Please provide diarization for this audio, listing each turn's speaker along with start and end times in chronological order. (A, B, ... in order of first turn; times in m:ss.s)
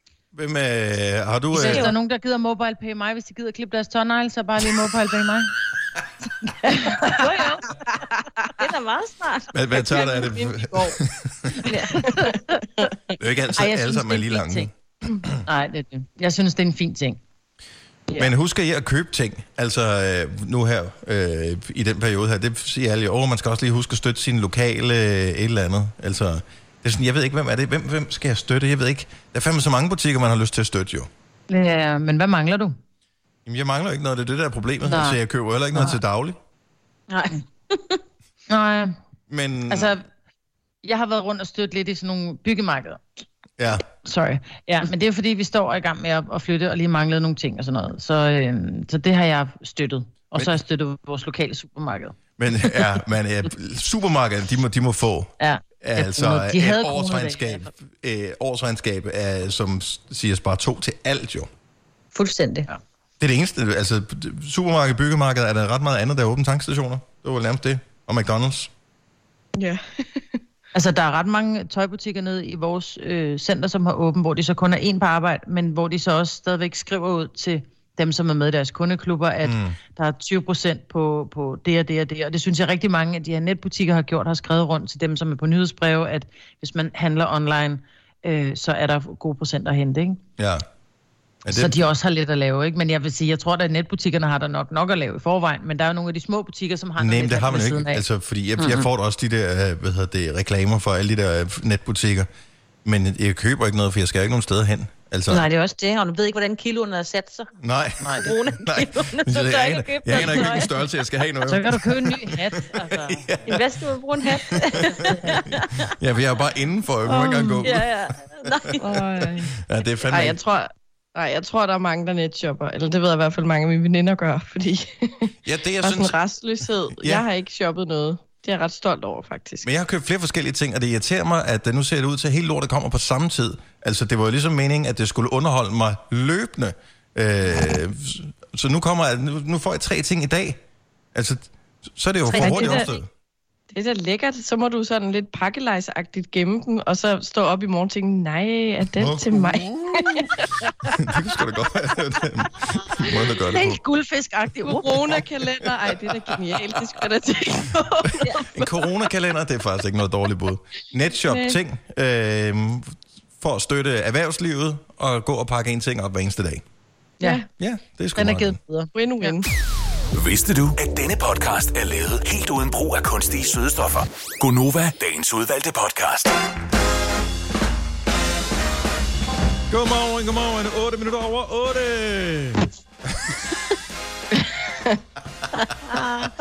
0:00.3-0:01.9 A
0:01.5-0:05.5 B
0:01.7-0:01.9 C
0:06.6-0:07.2 B
0:07.0-0:07.8 C
0:08.6-0:10.2 C
0:09.5-0:11.5 A
0:09.9-0:10.9 D
0:11.7-0:12.6 C
0:12.0-0:12.2 B
0:13.2-0:15.4 A
0:13.6-0:14.7 B
0:15.5-0:17.2 B
0:18.2-0:31.1 A
0:31.5-0:32.8 B
0:33.5-0:36.4 A
0:34.8-0:35.2 B
0:37.1-0:38.0 C
0:38.5-0:39.0 B
0:39.3-0:40.0 A
0:39.7-0:40.1 B
0:40.8-0:43.0 B
0:44.0-0:52.2 B
0:52.4-1:01.5 A
0:55.5-0:57.7 B
1:02.1-1:02.7 C
1:03.2-1:08.7 A
1:09.6-1:10.4 D
1:10.7-1:30.2 B
1:19.4-1:19.8 A
1:30.4-1:30.7 A
1:31.4-1:31.8 A
1:31.5-1:38.0 B
1:37.0-1:42.3 A
1:38.6-1:38.9 C
1:42.8-1:45.5 A
1:45.3-1:47.5 C
1:47.6-1:53.7 A
1:48.0-1:48.3 B
1:48.2-1:50.8 C
1:51.5-1:53.2 B
1:53.5-1:55.7 C
1:54.9-1:58.0 A
1:55.0-1:55.3 B
1:57.1-1:57.6 D
1:57.6-1:58.8 C
1:58.8-1:59.5 D
1:59.4-2:00.4 A
2:00.1-2:09.7 D
2:05.4-2:06.2 A
2:07.0-2:07.2 A
2:09.6-2:20.6 A
2:21.1-2:23.1 A
2:22.3-2:23.0 C
2:22.4-2:22.9 D
2:23.7-2:30.5 D
2:29.0-2:33.8 A
2:33.5-2:35.0 B
2:34.6-2:38.5 D
2:35.4-2:37.0 A
2:38.5-2:46.6 A
2:41.3-2:41.6 D
2:47.2-2:47.5 D
2:47.6-2:48.6 A
2:48.2-2:49.4 B
2:49.0-2:49.5 D
2:50.1-2:56.4 E
2:59.7-3:03.4 A